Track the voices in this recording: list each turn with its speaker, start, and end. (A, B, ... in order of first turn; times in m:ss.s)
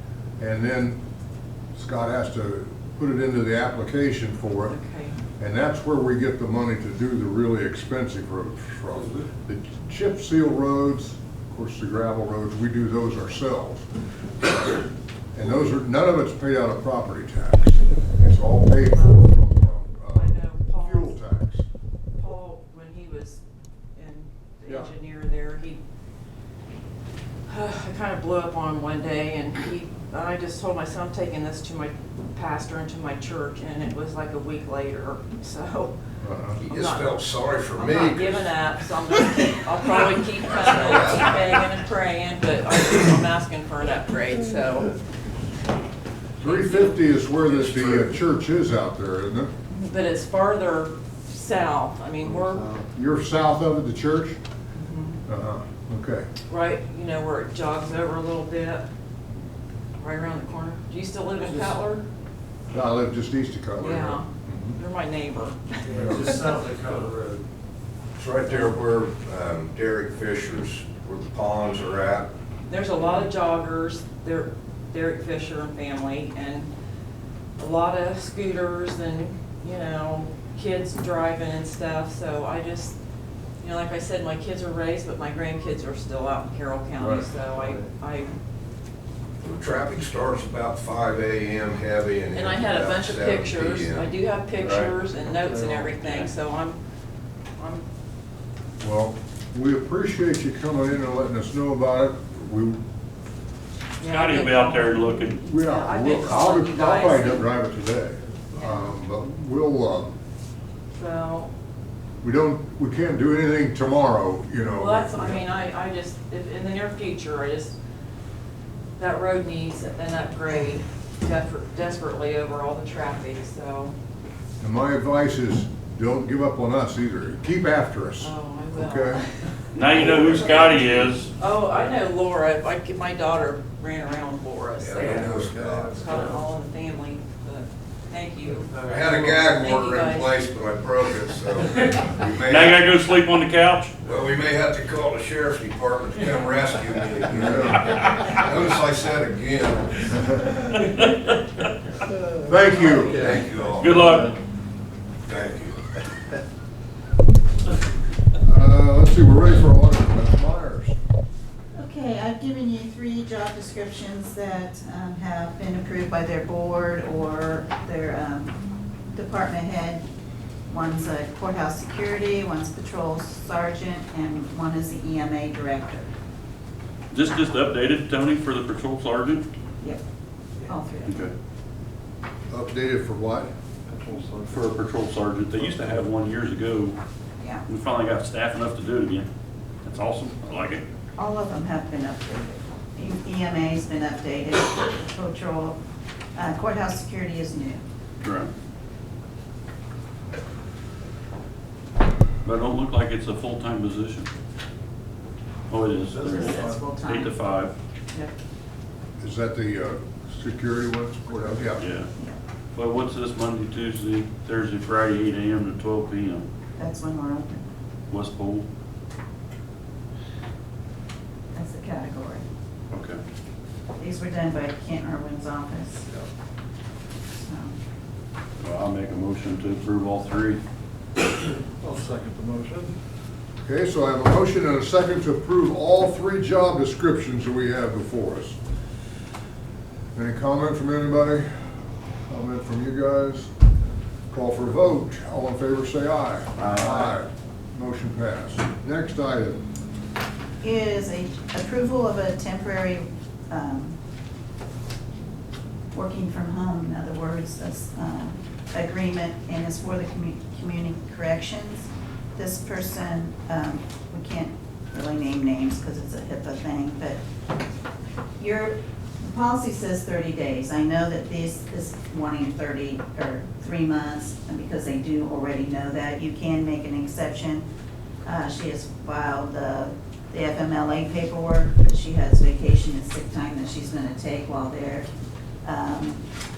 0:00.4-0:01.0 A
0:01.7-0:04.8 A
0:04.7-0:05.2 B
0:05.4-0:13.9 A
0:14.4-0:14.8 A
0:15.3-0:21.7 A
0:18.9-0:19.3 B
0:20.1-0:21.2 B
0:22.2-0:23.4 B
0:24.0-0:25.8 B
0:27.5-0:35.9 B
0:36.2-0:36.6 A
0:36.6-0:38.5 C
0:36.7-0:37.2 B
0:37.7-0:45.0 B
0:40.5-0:41.5 C
0:46.4-0:47.9 B
0:46.4-0:49.5 A
0:49.7-0:52.7 B
0:52.9-0:54.4 A
0:54.8-0:55.2 B
0:55.3-0:56.3 A
0:56.5-0:58.9 B
1:00.0-1:02.0 B
1:02.7-1:04.8 A
1:03.8-1:06.5 B
1:05.9-1:07.4 D
1:05.9-1:06.3 A
1:08.2-1:12.3 C
1:12.7-1:16.7 B
1:17.6-1:23.0 B
1:23.6-1:28.3 B
1:29.4-1:34.1 C
1:32.3-1:36.8 B
1:34.6-1:34.9 C
1:36.0-1:36.3 E
1:37.6-1:37.8 B
1:38.8-1:42.8 A
1:44.0-1:47.5 B
1:44.0-1:45.5 E
1:45.5-1:50.1 A
1:48.5-1:48.9 B
1:50.9-1:51.5 B
1:52.2-1:55.4 A
1:54.7-1:57.8 B
1:59.0-2:03.9 B
2:04.6-2:09.2 A
2:08.2-2:09.3 B
2:09.7-2:11.3 E
2:09.9-2:10.9 C
2:11.4-2:15.3 B
2:14.8-2:16.2 C
2:15.0-2:16.4 D
2:15.9-2:20.4 B
2:18.7-2:19.5 D
2:18.8-2:23.0 C
2:22.4-2:23.9 E
2:24.0-2:30.4 C
2:27.4-2:27.8 A
2:30.7-2:31.1 E
2:32.4-2:34.4 D
2:32.4-2:33.4 A
2:33.1-2:34.3 C
2:33.8-2:34.3 E
2:35.3-2:35.8 C
2:38.4-2:41.0 A
2:41.8-2:48.6 F
2:49.1-2:50.0 F
2:50.7-2:56.1 F
2:57.1-2:59.4 E
3:00.6-3:01.3 F
3:01.1-3:01.3 E
3:02.5-3:03.5 A
3:03.9-3:04.7 D
3:04.5-3:07.0 E
3:07.4-3:07.6 F
3:07.7-3:09.3 E
3:09.8-3:10.8 E
3:11.2-3:15.8 F
3:16.4-3:17.8 F
3:18.2-3:18.5 E
3:22.4-3:24.3 E
3:25.7-3:27.7 E
3:26.1-3:26.8 D
3:26.2-3:27.4 F
3:29.2-3:31.8 A
3:31.8-3:32.1 E
3:32.7-3:36.5 E
3:36.8-3:37.7 F
3:38.1-3:38.7 E
3:41.6-3:42.4 F
3:42.9-3:43.2 E
3:44.0-3:46.2 F
3:47.3-3:47.8 F
3:48.6-3:50.6 E
3:51.8-3:53.0 D
3:53.6-3:58.6 A
4:00.2-4:01.5 A
4:02.3-4:03.5 A
4:04.3-4:09.6 A
4:06.6-4:07.1 E
4:10.6-4:14.0 F
4:15.9-4:27.2 F
4:28.4-4:37.6 F
4:38.2-4:45.1 F
4:45.6-4:46.2 F